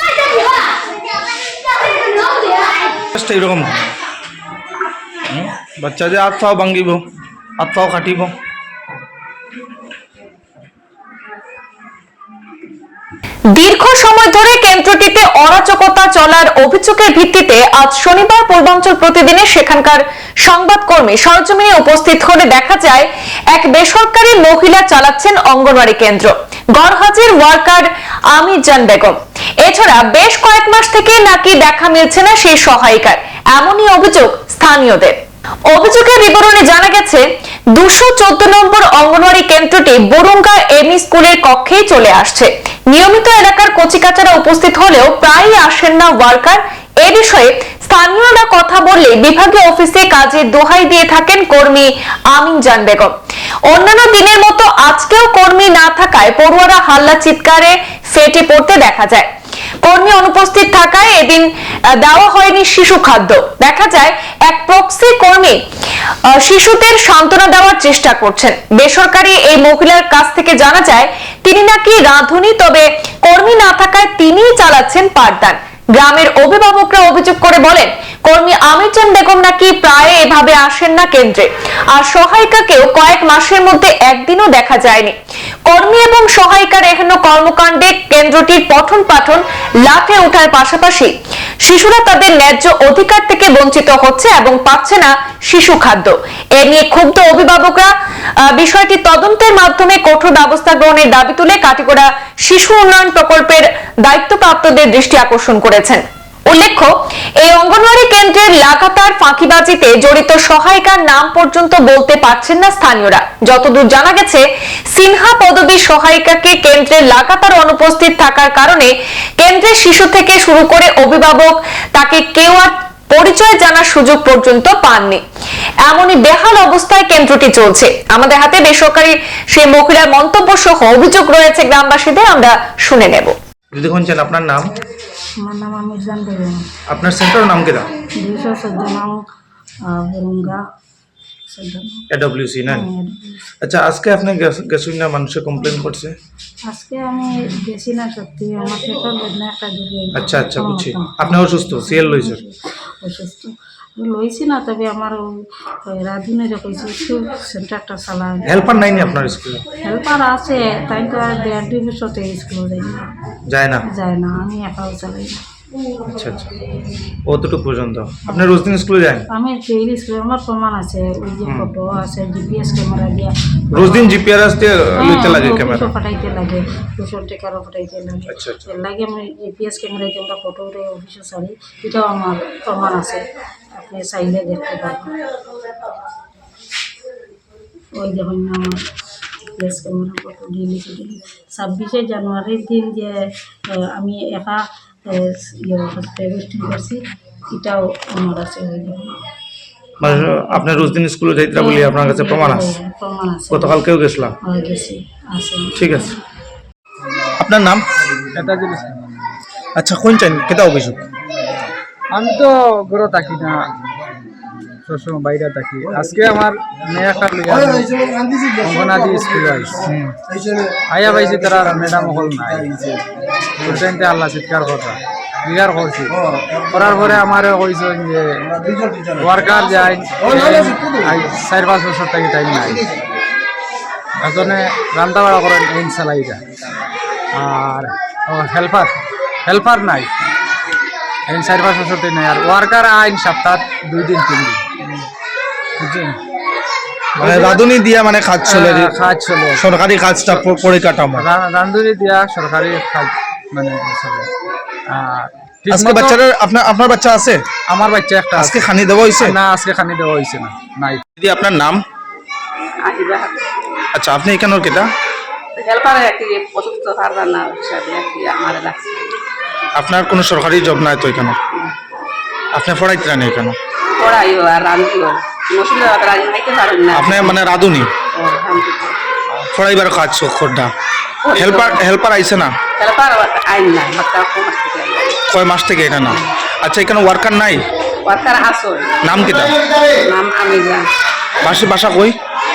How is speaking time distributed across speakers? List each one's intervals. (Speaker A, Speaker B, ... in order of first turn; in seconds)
Speaker A: 3.1-3.9, 5.3-7.0, 7.6-8.3, 133.7-134.7, 136.9-137.9, 142.1-142.9, 143.6-146.1, 150.1-152.4, 158.4-159.6, 163.5-163.8, 166.1-166.5, 167.3-169.3, 171.4-171.7, 173.7-175.9, 178.3-178.7, 200.0-202.7, 203.5-204.3, 205.8-206.1, 207.4-207.8, 209.8-211.0, 247.2-248.9, 249.6-251.3, 255.7-257.4, 258.3-259.4, 261.2-261.8, 263.9-264.9, 269.8-271.4, 272.5-273.6, 276.9-277.9, 279.5-280.7, 281.3-282.5, 285.3-287.6, 289.0-289.5, 291.4-292.1
Speaker B: 13.5-35.1, 35.7-37.2, 37.7-53.1, 53.7-59.3, 59.8-65.6, 66.3-85.1, 85.7-125.2, 125.8-133.3
Speaker C: 135.4-136.6, 138.2-139.2, 139.9-140.6, 141.5-142.0, 142.8-143.4, 146.7-155.2, 155.8-159.1, 159.8-163.1, 163.8-165.4, 169.3-173.3, 174.9-185.1, 187.9-188.8, 189.5-197.0, 197.5-199.2, 200.0-201.0, 201.6-203.8, 204.4-205.9
Speaker D: 208.3-209.1, 212.1-213.7, 214.8-218.0, 218.6-220.0, 220.9-222.9, 223.6-226.2, 226.7-228.5, 229.2-232.8, 234.2-236.4, 237.3-240.1, 241.3-245.0, 245.8-246.2, 247.2-247.6, 248.4-249.6, 251.2-254.3, 254.9-256.2, 257.7-258.6, 259.2-261.0
Speaker E: 262.8-263.5, 265.6-268.9, 274.0-277.4, 278.1-279.0, 281.2-281.8, 282.8-285.2, 288.1-288.9, 290.1-290.8